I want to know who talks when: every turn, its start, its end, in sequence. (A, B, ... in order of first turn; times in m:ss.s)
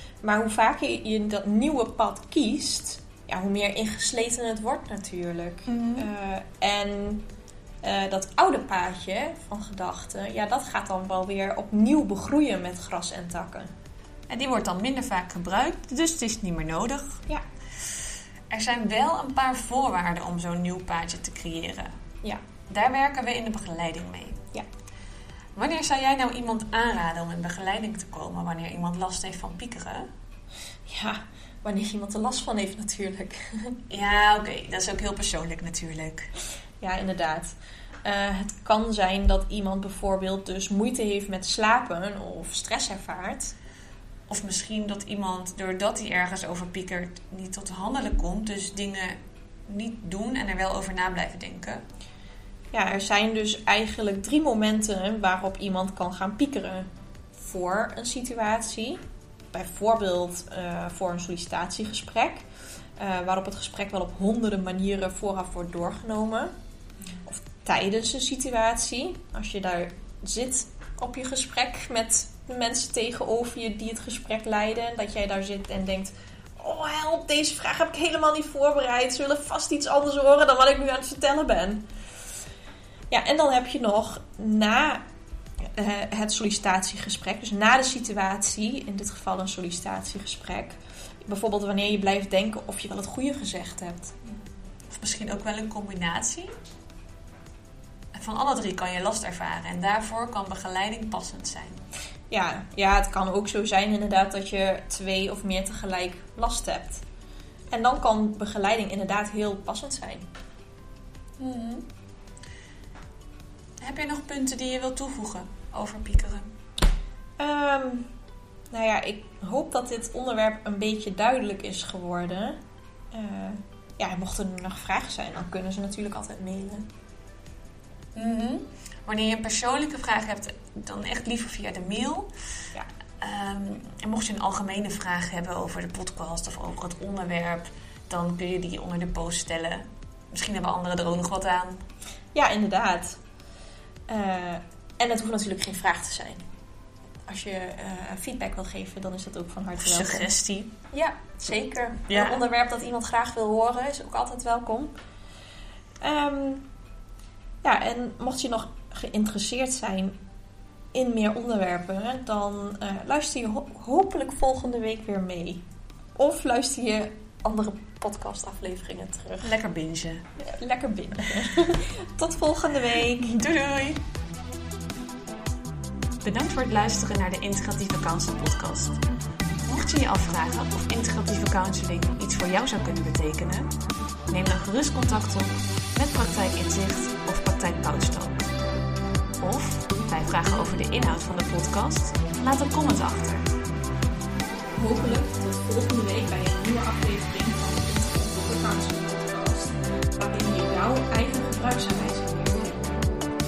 0:00.2-0:07.3 A
0:05.7-0:06.1 B
0:07.8-0:13.7 A
0:14.3-0:17.2 B
0:18.5-0:21.9 B
0:22.7-0:24.4 B
0:25.6-0:30.1 B
0:30.9-0:33.8 A
0:33.9-0:36.3 B
0:36.8-0:37.5 A
0:38.0-0:43.6 A
0:44.3-0:49.2 B
0:49.7-0:51.8 B
0:52.7-0:59.0 A
0:59.5-1:02.5 A
1:03.0-1:06.5 A
1:07.2-1:21.8 A
1:23.1-1:25.0 A
1:25.6-1:34.1 A
1:34.9-1:36.5 B
1:38.2-1:41.8 B
1:42.3-1:47.0 A
1:47.7-1:50.2 A
1:51.4-1:51.9 B
1:53.8-1:56.5 B
1:57.4-1:58.1 A
1:58.7-2:02.6 A
2:03.1-2:06.9 A
2:08.2-2:12.3 B
2:13.2-2:21.8 B
2:22.4-2:23.2 A
2:24.1-2:26.4 A
2:27.3-2:30.3 A
2:29.8-2:30.7 B
2:30.9-2:34.9 A
2:32.1-2:32.4 B
2:36.0-2:36.6 A
2:37.6-2:40.2 A
2:40.9-2:45.6 A
2:46.2-2:49.5 A
2:49.4-2:50.2 B
2:50.4-2:53.4 A
2:53.2-2:54.0 B
2:56.2-2:59.0 B
2:59.7-3:03.7 B
3:04.3-3:08.5 B
3:09.4-3:13.5 B
3:14.8-3:22.8 A